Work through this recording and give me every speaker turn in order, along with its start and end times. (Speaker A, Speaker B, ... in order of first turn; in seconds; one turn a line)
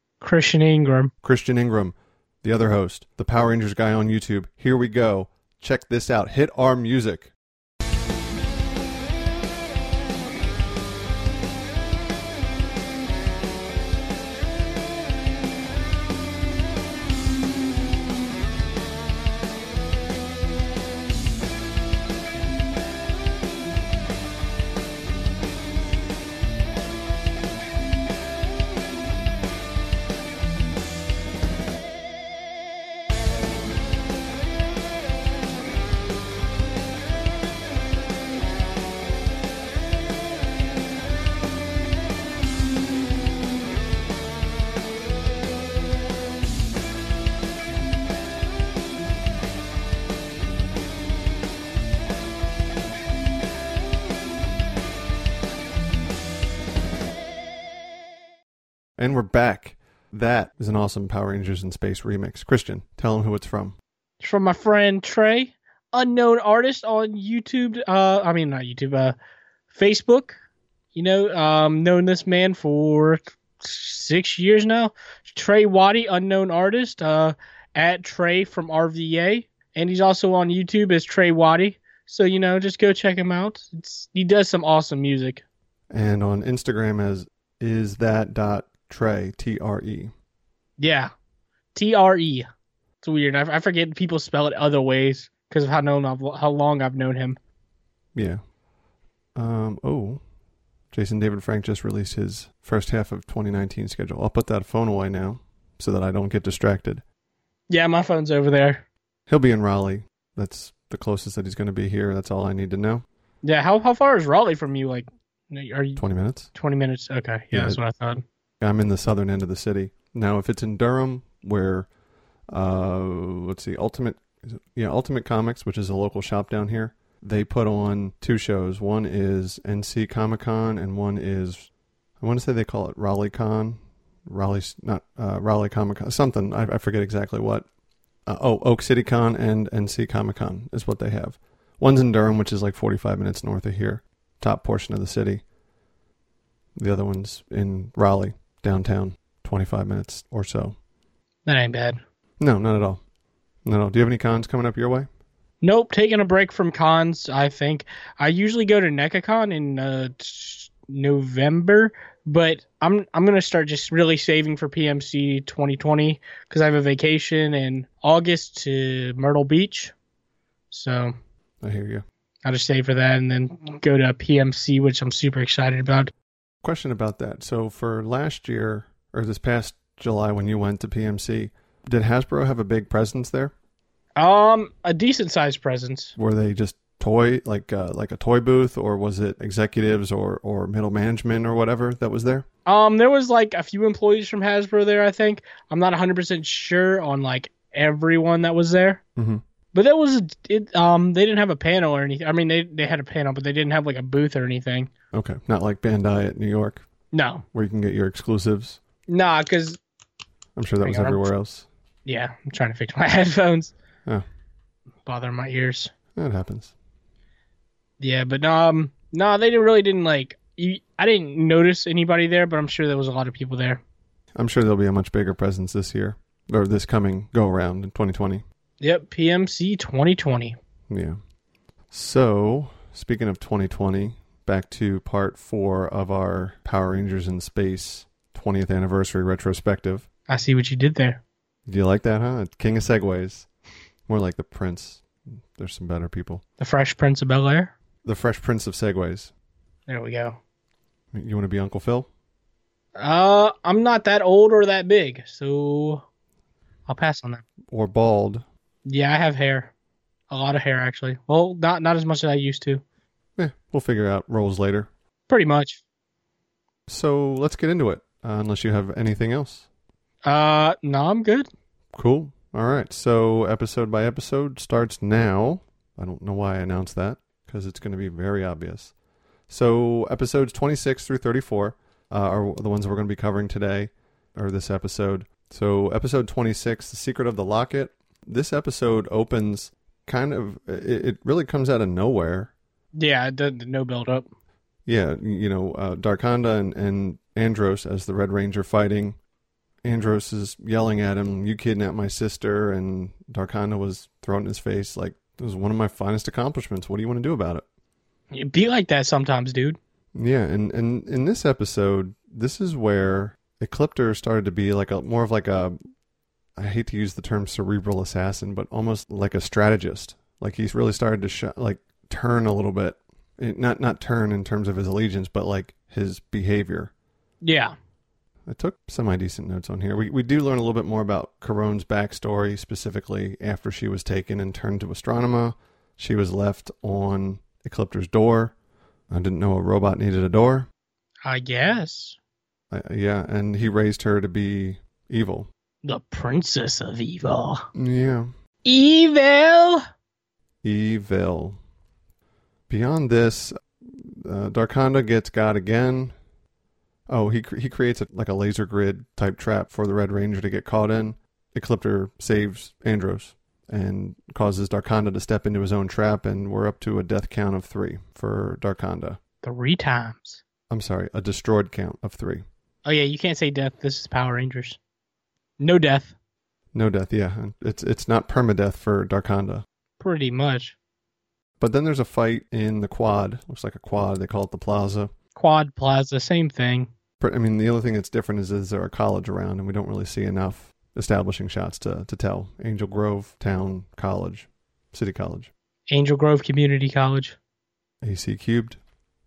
Speaker A: 0.2-1.1
Speaker B: 1.2-7.3
Speaker B: 59.0-63.8
Speaker A: 64.2-69.2
Speaker A: 69.7-70.3
Speaker A: 71.0-85.5
Speaker B: 85.9-90.1
Speaker A: 90.8-91.1
Speaker A: 91.8-92.5
Speaker A: 93.0-97.4
Speaker B: 98.2-98.4
Speaker B: 99.4-100.2
Speaker B: 100.9-107.0
Speaker A: 107.7-108.8
Speaker B: 109.3-113.0
Speaker A: 113.4-116.0
Speaker B: 116.0-116.5
Speaker A: 116.5-118.2
Speaker B: 117.5-117.8
Speaker B: 118.6-121.9
Speaker B: 122.5-131.7
Speaker B: 132.2-137.7
Speaker B: 138.3-145.4
Speaker B: 146.8-150.8
Speaker A: 151.4-152.0
Speaker B: 152.4-153.0
Speaker B: 153.7-155.1
Speaker A: 155.6-169.9
Speaker A: 170.7-171.2
Speaker B: 171.6-172.0
Speaker A: 172.4-176.1
Speaker B: 176.6-183.5
Speaker A: 184.2-186.1
Speaker B: 186.2-192.5
Speaker A: 192.7-199.0
Speaker B: 199.2-199.4
Speaker A: 199.7-204.9
Speaker B: 205.1-206.9
Speaker A: 207.1-207.4
Speaker B: 207.5-208.8
Speaker A: 209.1-209.8
Speaker B: 210.6-211.7
Speaker A: 210.8-211.3
Speaker A: 212.1-213.7
Speaker A: 215.1-215.9
Speaker B: 216.2-216.7
Speaker A: 218.0-223.8
Speaker B: 224.3-228.4
Speaker A: 228.8-230.6
Speaker B: 230.9-231.2
Speaker B: 231.9-240.1
Speaker A: 240.3-241.2
Speaker B: 241.7-243.5
Speaker B: 244.1-246.4
Speaker A: 246.6-247.7
Speaker B: 248.1-249.3
Speaker A: 249.9-250.4
Speaker B: 251.1-252.1
Speaker A: 253.0-256.0
Speaker A: 256.9-257.4
Speaker B: 257.7-258.4
Speaker A: 258.9-259.7
Speaker A: 260.3-262.8
Speaker B: 263.4-264.9
Speaker A: 265.3-265.8
Speaker B: 266.9-269.7
Speaker A: 270.2-271.5
Speaker B: 271.9-278.9
Speaker B: 279.5-292.5
Speaker A: 292.9-294.3
Speaker B: 294.9-299.2
Speaker B: 299.8-307.6
Speaker A: 308.3-309.8
Speaker B: 310.1-315.8
Speaker B: 316.6-326.9
Speaker A: 327.4-327.8
Speaker B: 328.5-338.6
Speaker B: 339.1-340.7
Speaker A: 341.2-342.2
Speaker B: 342.7-345.5
Speaker A: 345.8-347.7
Speaker B: 347.8-348.3
Speaker A: 348.6-349.8
Speaker B: 350.6-351.6
Speaker B: 352.7-356.1
Speaker B: 357.1-369.2
Speaker A: 369.4-370.4
Speaker B: 370.7-372.4
Speaker A: 372.9-374.8
Speaker A: 375.6-376.1
Speaker B: 376.7-379.6
Speaker A: 380.0-380.8
Speaker B: 381.6-385.1
Speaker A: 385.4-386.9
Speaker B: 387.2-395.5
Speaker A: 395.9-397.4
Speaker B: 398.0-398.8